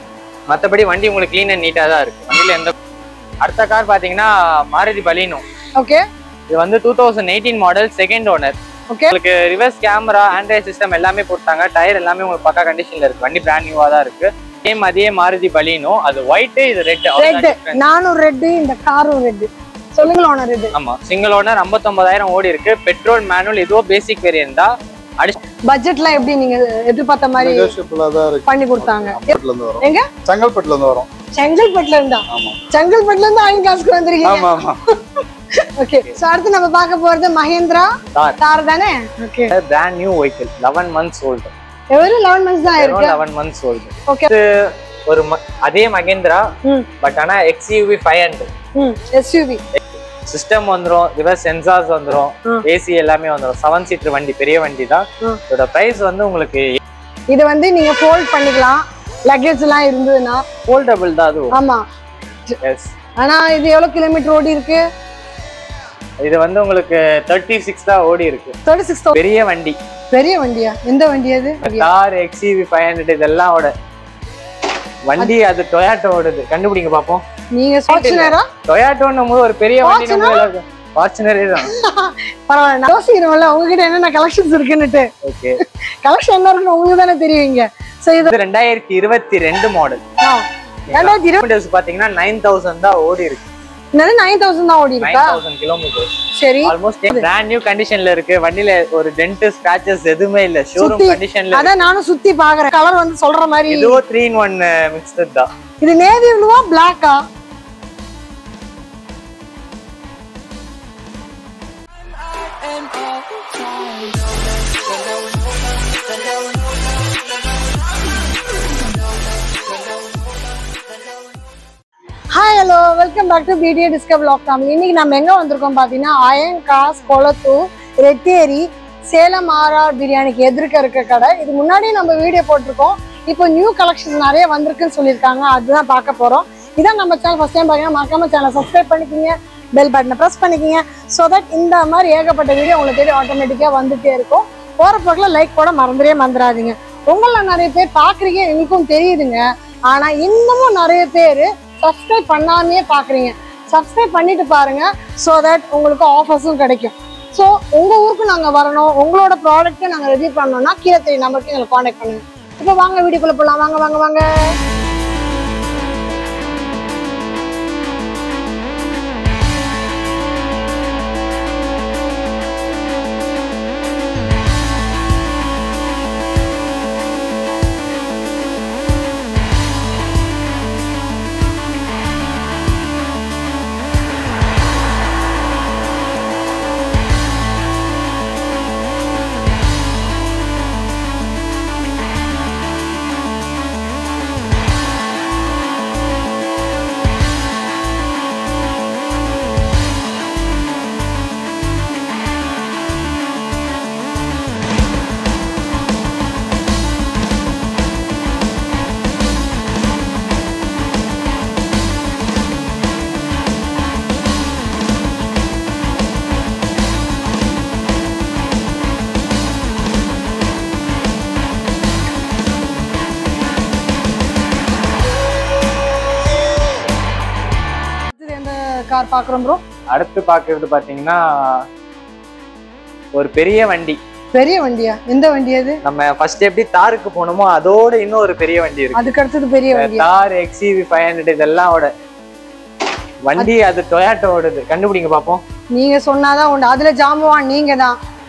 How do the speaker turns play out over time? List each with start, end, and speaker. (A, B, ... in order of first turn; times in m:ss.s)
0:00.5-0:02.7 A
0:03.4-0:05.4 A
0:06.5-0:08.6 A
0:09.1-0:17.8 A
0:17.2-0:20.7 B
0:20.7-0:25.4 A
0:25.7-0:27.7 B
0:27.4-0:31.1 C
0:28.5-0:30.0 B
0:31.3-0:34.6 B
0:32.3-0:32.6 C
0:34.2-0:34.8 C
0:35.8-0:39.5 B
0:39.5-0:41.5 A
0:41.9-0:43.2 B
0:42.7-0:46.5 A
0:47.0-0:48.5 A
0:48.8-0:49.6 B
0:49.7-0:56.8 A
0:57.3-1:00.4 B
1:00.6-1:01.5 A
1:01.5-1:01.8 B
1:02.6-1:02.9 A
1:03.2-1:04.8 B
1:06.2-1:08.5 A
1:08.6-1:09.2 B
1:09.1-1:09.8 A
1:10.1-1:11.9 B
1:11.6-1:13.7 A
1:15.1-1:17.2 A
1:17.5-1:18.4 B
1:17.9-1:21.7 A
1:19.8-1:20.5 B
1:21.6-1:25.1 B
1:25.2-1:25.6 A
1:26.0-1:28.3 B
1:28.2-1:30.0 A
1:30.2-1:31.4 B
1:30.9-1:33.4 A
1:34.0-1:35.4 B
1:35.0-1:41.7 A
1:36.3-1:37.3 B
1:40.8-1:44.0 B
1:43.7-1:45.5 A
1:45.8-1:47.2 B
1:52.6-1:54.8 A
2:02.3-2:44.2 B
3:48.1-3:49.6 B
3:49.9-3:51.6 A
3:53.1-3:54.0 A
3:54.3-3:55.8 B
3:55.8-3:59.1 A
3:58.9-4:00.1 B
3:59.7-4:01.9 A
4:03.2-4:05.4 A
4:05.7-4:07.9 B